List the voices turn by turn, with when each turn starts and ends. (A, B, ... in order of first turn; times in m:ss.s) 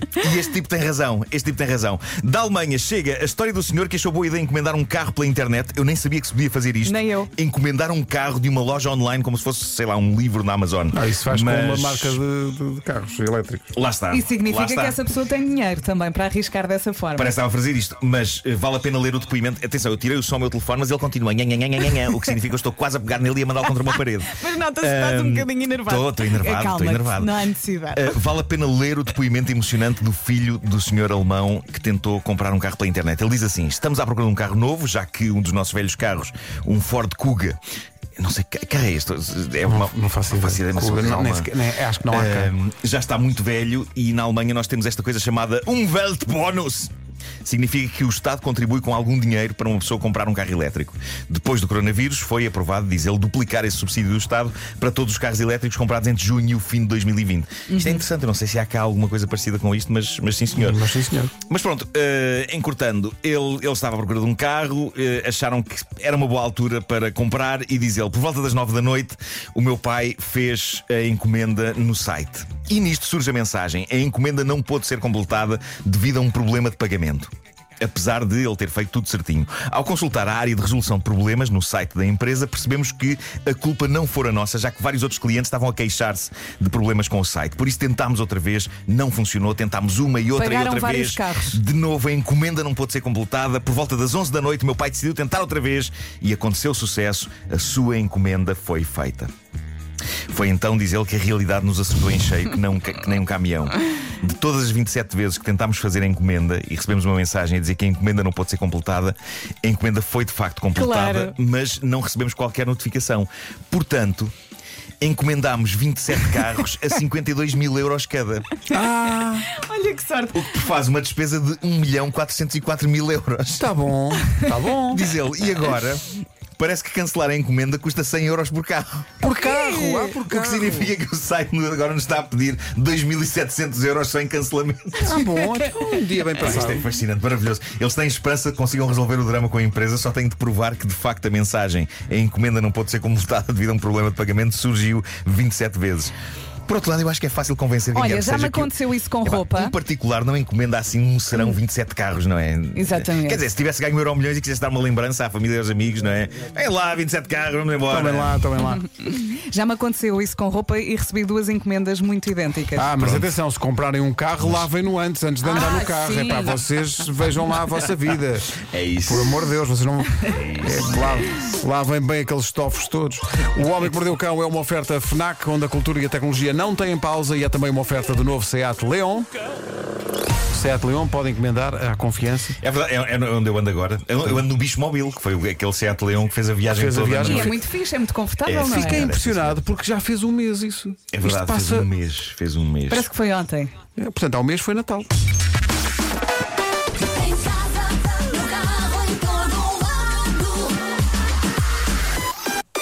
0:00.2-0:12.2 A
0:06.8-0:07.3 B
0:10.9-0:13.7 C
0:13.8-0:15.0 A
0:14.1-0:17.3 B
0:17.2-0:27.3 A
0:23.7-0:28.1 B
0:27.9-0:37.6 A
0:38.2-0:41.5 A
0:39.7-0:42.5 C
0:42.1-0:46.9 A
0:47.4-1:00.8 A
0:57.7-0:58.0 B
1:00.6-1:01.3 C
1:01.4-1:39.3 A
1:30.3-1:31.6 B
1:40.3-1:54.3 A
1:50.8-1:51.3 B
1:55.0-1:58.5 A
1:58.7-1:59.5 C
1:59.5-2:00.4 B
2:00.3-2:03.6 A
2:03.6-2:05.0 C
2:04.9-2:06.0 A
2:06.6-2:09.2 A
2:09.2-2:10.9 C
2:09.4-2:10.2 B
2:10.2-2:15.2 A
2:15.0-2:16.9 C
2:16.4-2:26.1 A
2:26.7-2:28.7 A
2:27.9-2:29.7 B
2:29.2-2:38.6 A
2:32.8-2:33.4 B
2:37.9-2:38.8 C
2:39.0-2:43.0 B
2:42.8-2:59.3 C
2:43.0-2:43.3 A
2:44.4-2:44.7 A
2:45.4-2:46.6 B
2:48.7-2:49.4 A
2:50.3-2:51.3 A
3:00.5-3:02.6 C
3:02.6-3:07.6 A
3:06.7-3:07.6 C
3:07.2-3:09.1 B
3:08.5-3:09.6 A
3:08.6-3:11.9 C
3:11.1-3:13.1 A
3:12.9-3:13.7 B
3:14.0-3:15.1 C
3:17.2-3:20.7 B